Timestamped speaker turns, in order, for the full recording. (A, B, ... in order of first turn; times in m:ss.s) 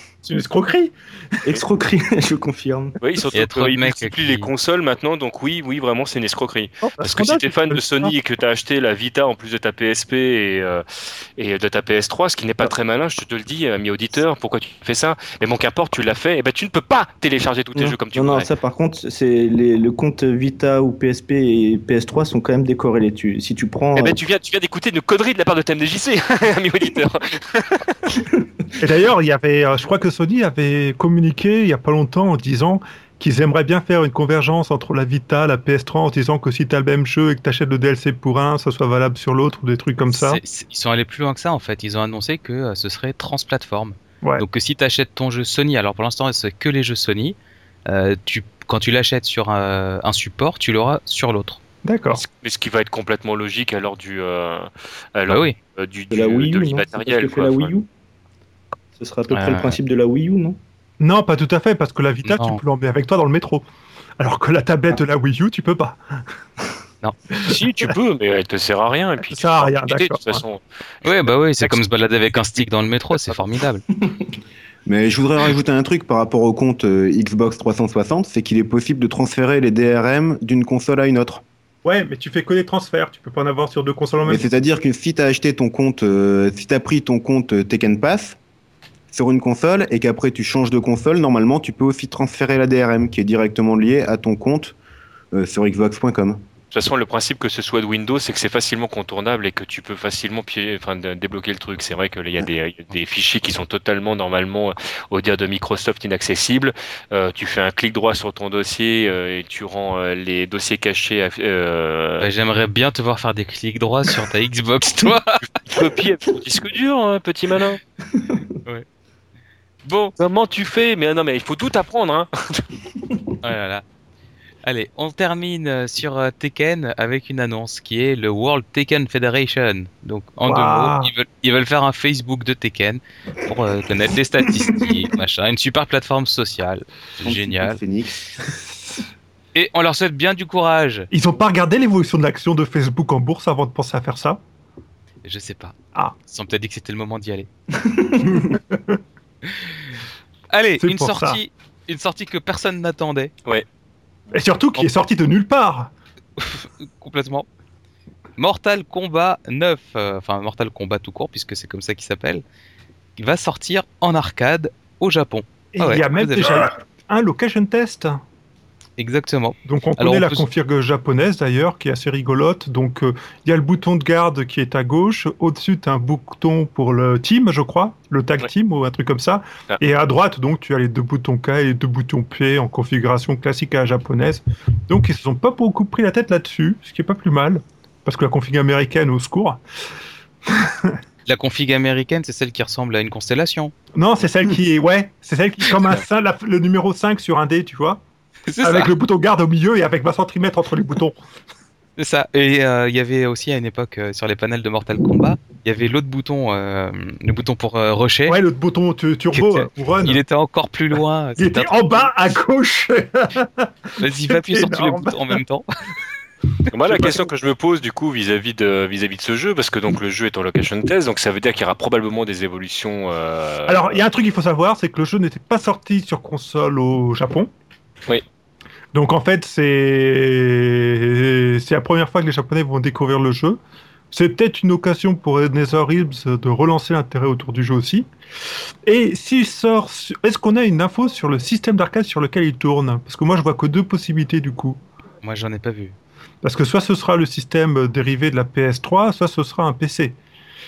0:00.2-0:01.5 A
0:01.4-0:03.0 B
0:03.0-0:10.8 C
0:03.3-0:04.5 D
0:06.8-0:08.1 A
0:11.4-0:18.5 C
0:17.8-0:24.2 B
0:24.0-0:28.0 C
0:28.8-0:40.4 A
0:40.1-0:47.4 D
0:47.9-0:51.6 D
0:51.8-0:52.2 A
0:52.1-0:57.7 C
0:55.3-0:55.6 D
0:56.1-0:57.9 B
0:59.0-1:00.6 B
0:59.3-0:59.8 D
1:01.0-1:03.6 A
1:02.2-1:02.6 D
1:04.2-1:06.0 A
1:07.3-1:07.9 A
1:07.4-1:11.8 C
1:09.2-1:10.4 A
1:11.0-1:13.8 D
1:14.0-1:14.3 B
1:14.8-1:21.4 E
1:21.8-1:24.4 A
1:24.2-1:28.4 E
1:29.1-1:34.8 E
1:35.3-1:36.4 E
1:36.7-1:52.3 C
1:52.2-1:55.4 D
1:55.6-1:57.8 C
1:58.1-1:58.4 B
1:59.8-2:02.6 C
2:03.4-2:03.8 D
2:04.6-2:17.8 D
2:10.4-2:11.1 A
2:17.2-2:18.3 E
2:18.6-2:19.0 A
2:19.5-2:21.1 D
2:21.1-2:24.4 A
2:25.2-2:27.5 D
2:27.8-2:28.4 B
2:28.4-2:29.0 A
2:29.5-2:29.8 D
2:30.5-2:33.3 D
2:30.8-2:31.4 A
2:34.3-2:35.9 A
2:36.4-2:37.4 D
2:38.4-2:42.4 D
2:43.2-2:46.6 D
2:45.7-2:48.2 A
2:49.0-2:50.4 D
2:49.6-3:09.6 A
3:10.5-3:11.0 A
3:11.2-3:13.7 D
3:13.9-3:18.0 A
3:18.5-3:18.9 D
3:18.6-3:21.2 A
3:22.0-3:28.4 D
3:28.3-3:30.2 A
3:29.3-3:32.1 D
3:31.4-3:33.7 A
3:34.0-3:35.6 D
3:34.2-3:35.4 A
3:36.7-3:44.0 C
3:36.9-3:37.2 A
3:43.7-3:47.5 A
3:48.9-3:53.6 A
3:54.1-3:58.1 A
3:58.8-4:04.8 A
4:05.2-4:06.0 D
4:06.4-4:10.1 A